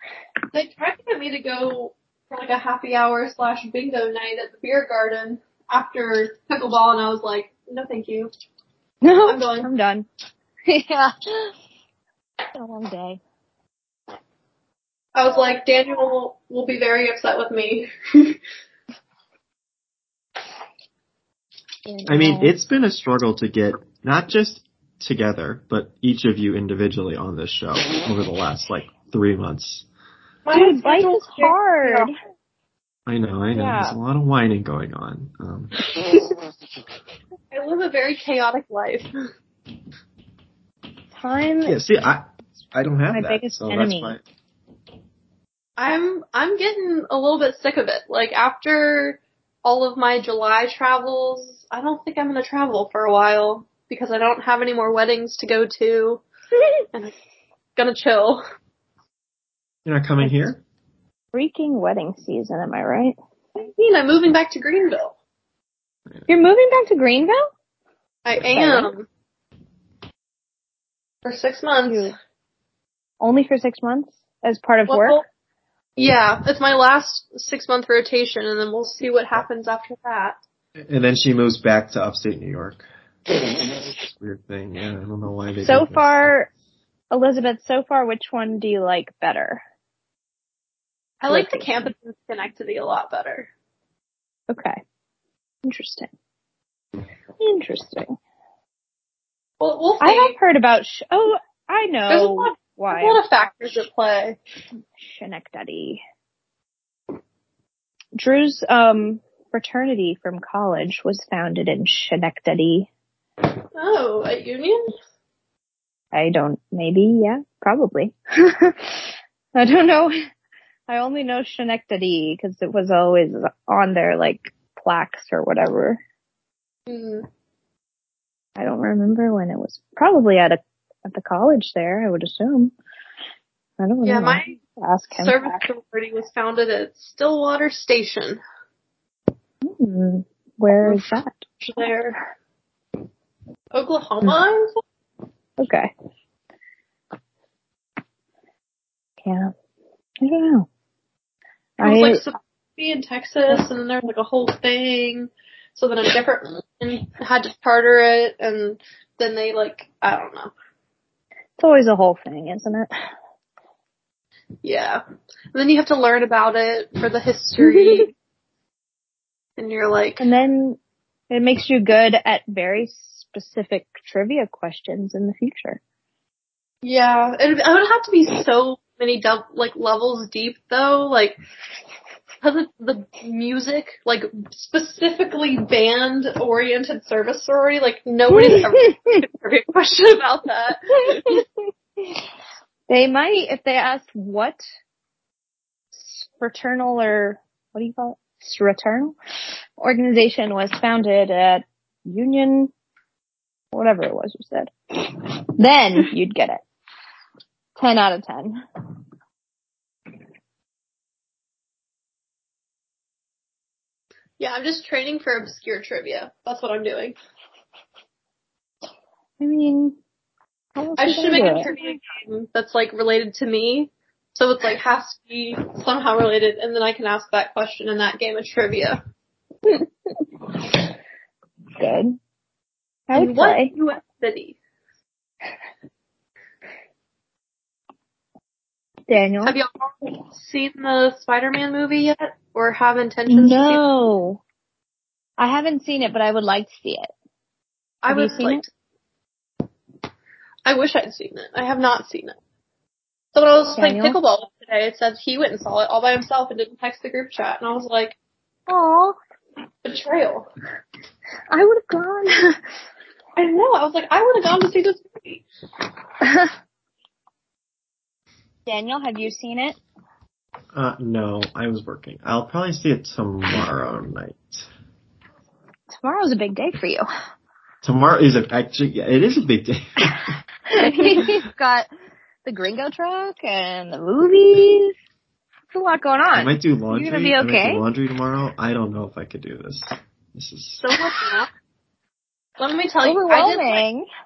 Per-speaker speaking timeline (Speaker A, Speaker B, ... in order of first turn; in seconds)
Speaker A: 0.5-8.3, 9.2-9.7, 15.2-18.4, 30.4-32.1, 37.5-39.1, 45.8-56.2, 57.8-58.4, 63.6-65.2, 68.2-69.1, 71.2-72.1, 74.9-75.2, 76.0-80.4, 91.2-93.5, 99.6-100.3, 102.1-104.4, 113.8-114.9, 126.9-127.3, 134.0-134.6, 135.2-138.4, 140.8-141.1, 141.6-142.2, 143.7-144.8, 151.8-160.5, 164.6-165.0, 165.5-168.1, 169.6-170.3, 176.8-181.4, 182.4-191.4, 214.4-217.2, 221.0-229.0, 233.1-234.6, 239.4-243.8, 248.0-248.7, 250.7-252.4, 253.3-258.2, 259.8-260.5, 263.4-265.4, 290.8-291.5, 292.6-293.8
Speaker B: 9.0-10.1, 10.7-11.5, 12.6-13.2, 21.9-22.6, 30.5-32.1, 33.5-34.0, 41.1-41.8, 43.1-44.2, 61.3-63.2, 66.3-67.5, 68.5-68.9, 71.9-72.2, 73.2-75.2, 85.6-86.5, 87.1-89.6, 91.3-91.8, 94.5-94.8, 95.7-96.1, 97.4-98.2, 100.0-103.2, 105.0-106.0, 108.2-112.9, 116.1-120.2, 120.9-126.0, 128.6-132.7, 133.8-135.6, 139.6-141.4, 145.6-145.9, 149.2-149.5, 150.2-150.7, 151.8-152.2, 161.6-162.9, 167.6-168.1, 170.2-170.8, 171.3-175.8, 188.3-189.2, 191.1-191.4, 192.9-194.6, 195.9-199.2, 199.8-202.7, 203.7-206.6, 207.8-208.6, 219.4-219.9, 220.8-221.7, 231.8-232.2, 233.1-233.7, 239.1-239.6, 243.3-244.4, 245.4-247.1, 248.1-248.6, 253.8-254.2, 258.7-259.2, 261.5-262.6, 266.2-266.5, 268.7-269.8, 276.0-277.1, 280.7-281.9, 282.4-284.9, 285.7-287.8, 293.0-294.1
Speaker C: 22.1-29.9, 33.1-35.7, 41.6-44.2, 59.8-60.6, 80.8-82.8, 84.1-86.3, 270.7-274.7, 277.8-280.4, 286.3-290.8